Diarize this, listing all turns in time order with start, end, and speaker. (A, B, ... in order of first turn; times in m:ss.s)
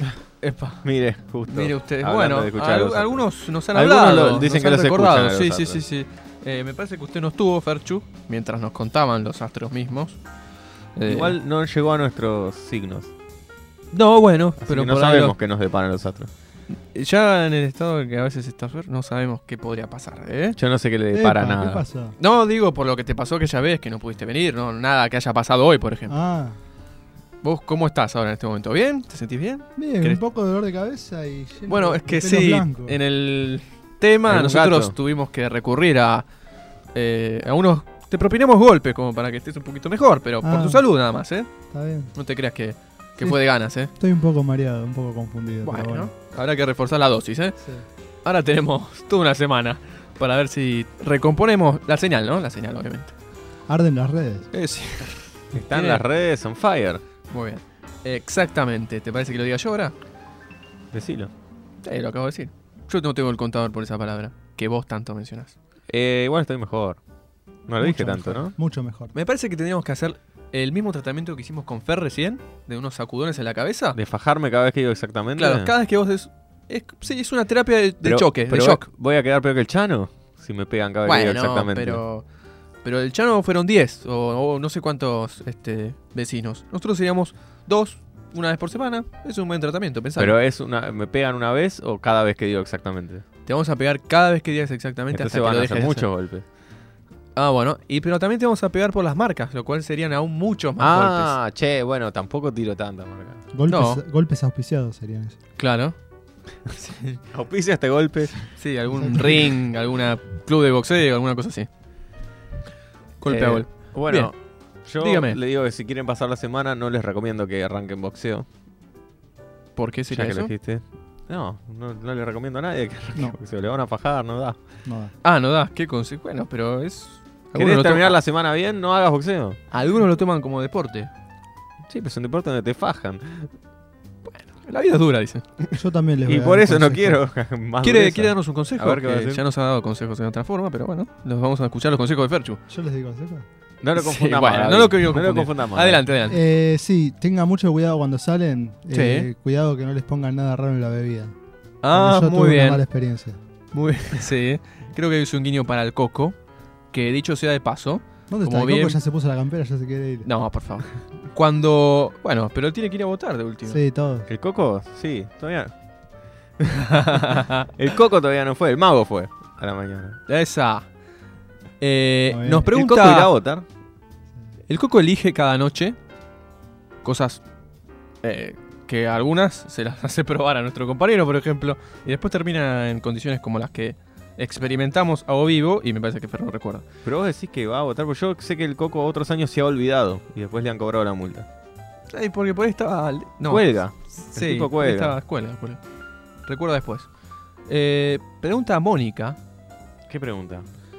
0:00.4-0:00.8 A
0:00.8-0:05.8 B
0:01.5-0:10.2 A
0:11.0-0:11.4 A
0:11.1-0:13.1 B
0:13.9-0:15.4 A
0:14.6-0:16.3 B
0:16.9-0:20.6 A
0:20.6-0:21.8 B
0:21.1-0:22.2 C
0:22.2-0:26.1 A
0:26.1-0:26.6 C
0:27.4-0:30.2 A
0:29.8-0:33.0 C
0:31.7-0:36.3 A
0:34.2-0:34.9 B
0:36.9-0:41.5 A
0:40.4-0:40.8 C
0:41.7-0:42.1 C
0:42.1-0:43.9 A
0:44.0-0:46.1 C
0:45.6-0:47.6 A
0:48.2-0:53.1 A
0:53.7-0:54.5 C
0:54.5-0:56.0 A
0:55.5-0:57.0 B
0:57.3-0:59.9 A
1:00.9-1:01.3 B
1:01.8-1:05.6 A
1:05.9-1:07.0 B
1:07.7-1:08.6 B
1:07.8-1:09.1 C
1:09.1-1:14.0 A
1:13.9-1:15.7 B
1:15.4-1:18.8 A
1:18.0-1:22.0 B
1:21.0-1:22.2 A
1:22.8-1:30.3 A
1:30.2-1:33.2 B
1:33.5-1:36.1 A
1:35.1-1:36.4 B
1:37.4-1:41.4 A
1:40.8-1:43.4 B
1:43.5-1:45.4 C
1:43.7-1:44.0 A
1:45.6-1:46.0 A
1:46.7-1:47.2 A
1:47.3-1:48.4 B
1:48.6-1:51.7 A
1:48.9-1:49.4 C
1:53.2-1:54.3 A
1:53.3-1:58.5 B
1:55.0-1:55.4 A
1:59.8-2:00.5 A
2:00.1-2:04.6 B
2:04.8-2:05.1 C
2:05.2-2:08.2 A
2:07.6-2:09.6 B
2:09.7-2:11.1 A
2:11.9-2:13.5 B
2:14.3-2:15.8 A
2:15.8-2:17.2 C
2:16.3-2:19.4 B
2:17.8-2:22.6 A
2:22.7-2:23.4 C
2:23.8-2:26.0 B
2:24.0-2:26.4 A
2:26.3-2:31.4 C
2:28.9-2:29.3 A
2:31.8-2:32.9 A
2:31.9-2:33.4 C
2:33.7-2:36.4 A
2:36.9-2:39.0 A
2:38.3-2:40.3 C
2:40.2-2:43.8 A
2:43.7-2:44.3 C
2:44.3-2:45.7 B
2:46.6-2:47.0 B
2:46.8-2:47.7 A
2:47.7-2:50.2 B
2:50.3-2:50.9 A
2:51.8-2:53.3 A
2:52.3-2:52.7 C
2:52.7-2:53.6 B
2:54.7-2:56.0 A
2:57.0-2:57.4 A
2:58.2-3:06.8 A
3:07.0-3:11.5 B
3:12.1-3:15.8 A
3:13.4-3:15.2 B
3:16.5-3:17.1 A
3:17.7-3:19.4 A
3:20.1-3:20.6 B